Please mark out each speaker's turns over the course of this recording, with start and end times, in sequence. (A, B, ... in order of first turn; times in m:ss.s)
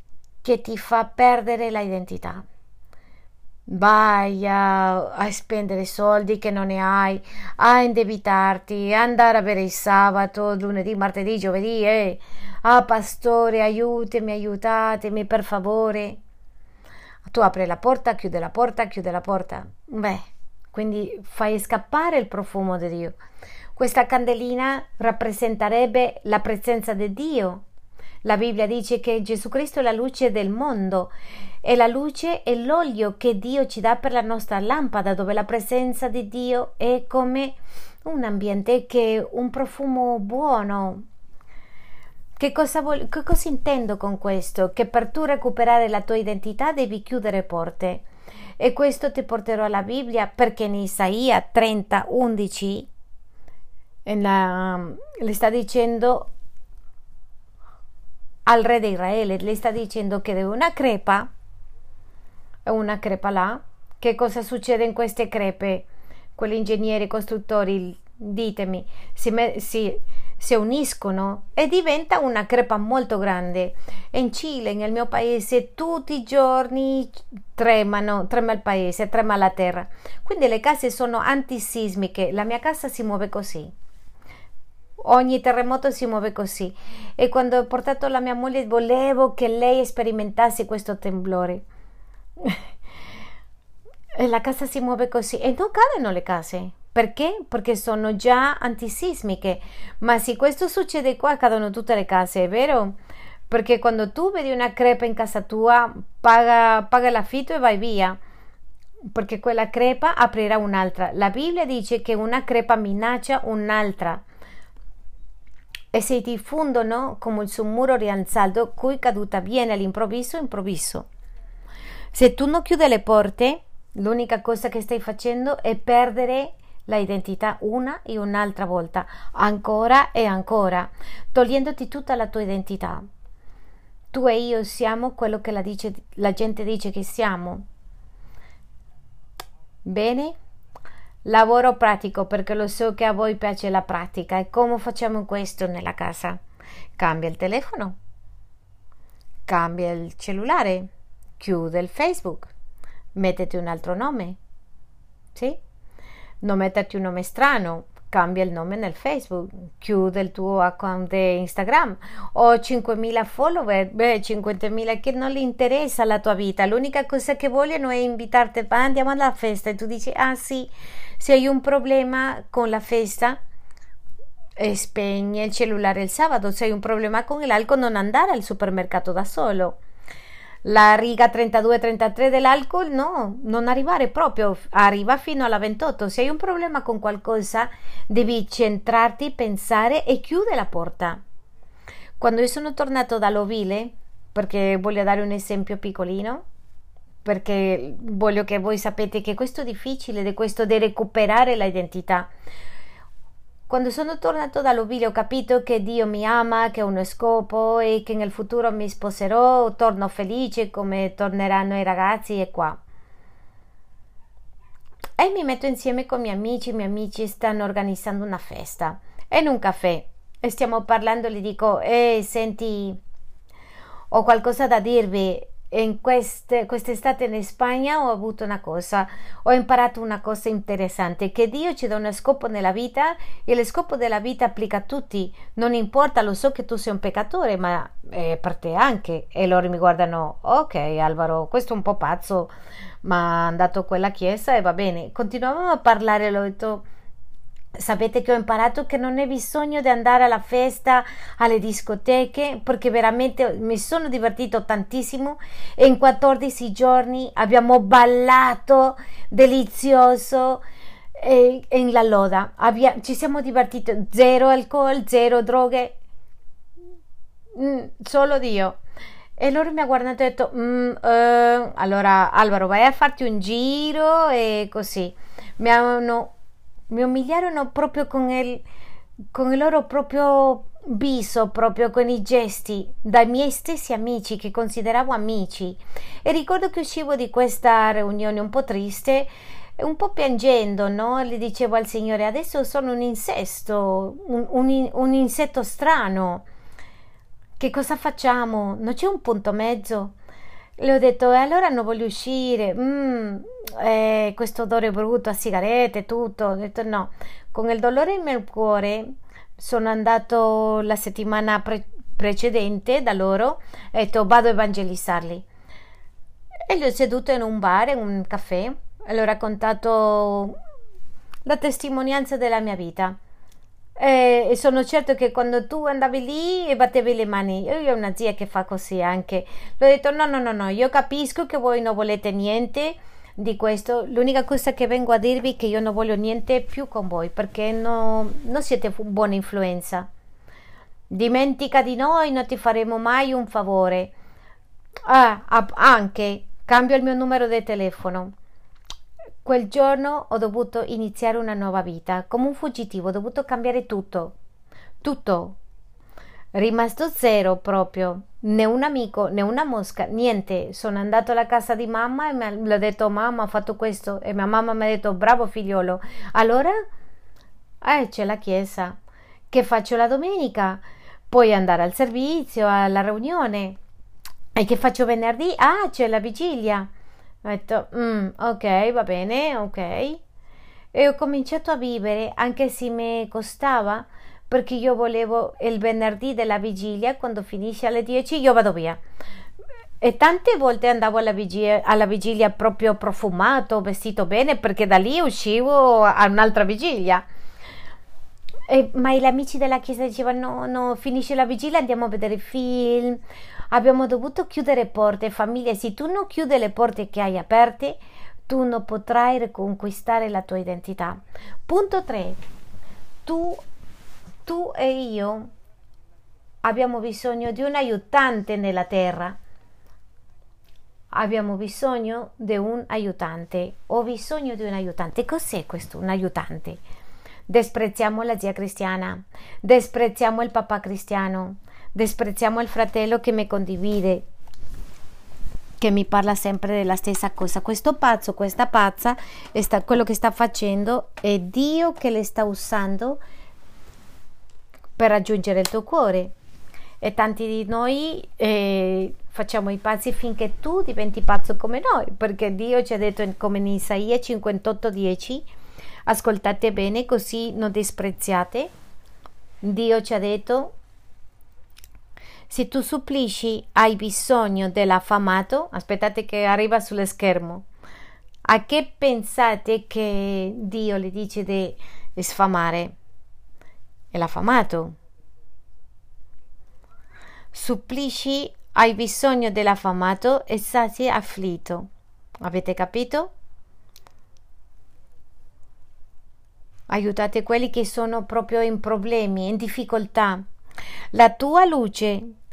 0:00.4-0:02.4 A
0:03.7-0:16.2 A
0:17.2-0:23.2 A
0:23.8-0:27.6 A
0:28.2-0:41.0 A
0:42.4-0:48.0 A
0:48.6-0:52.9 A
0:54.1-0:56.3 A
0:58.5-1:01.3 A
1:02.7-1:23.7 A
1:25.0-1:31.6 A
1:34.2-1:43.0 A
1:43.5-1:48.2 A
1:49.1-1:54.2 A
1:55.9-2:01.1 A
2:02.1-2:13.0 A
2:14.1-2:17.6 A
2:19.8-2:20.4 A
2:21.2-2:26.4 A
2:27.0-2:28.0 A
2:29.5-2:32.5 A
2:33.2-2:34.4 A
2:35.3-2:35.6 A
2:36.4-2:53.4 A
2:54.6-2:59.8 A
3:00.6-3:11.2 A
3:12.2-3:16.4 A
3:17.2-3:22.3 A
3:23.7-3:32.8 A
3:35.2-3:43.0 A
3:44.1-4:02.5 A
4:03.0-4:06.8 A
4:07.8-4:20.6 A
4:21.2-4:26.0 A
4:27.6-4:28.8 A
4:29.4-4:36.3 A
4:36.9-4:38.6 A
4:39.3-4:56.5 A
4:57.6-5:00.1 A
5:00.8-5:15.5 A
5:16.7-5:20.6 A
5:21.4-5:23.2 A
5:24.0-5:40.1 A
5:41.1-5:44.1 A
5:45.1-5:48.3 A
5:49.4-5:54.4 A
5:55.0-5:55.6 A
5:56.5-6:06.8 A
6:07.8-6:09.0 A
6:09.5-6:13.8 A
6:14.6-6:16.9 A
6:17.4-6:20.2 A
6:20.9-6:29.0 A
6:30.0-6:37.2 A
6:38.7-6:52.4 A
6:53.2-6:53.6 A
6:54.5-6:55.5 A
6:56.6-6:59.4 A
7:01.1-7:06.8 A
7:07.5-7:14.2 A
7:15.8-7:23.2 A
7:25.0-7:26.3 A
7:27.0-7:35.5 A
7:36.1-7:38.7 A
7:39.6-7:40.8 A
7:42.5-7:47.7 A
7:48.4-7:53.0 A
7:54.1-7:55.0 A
7:57.5-8:01.9 A
8:02.4-8:03.3 A
8:06.9-8:10.4 A
8:11.1-8:12.3 A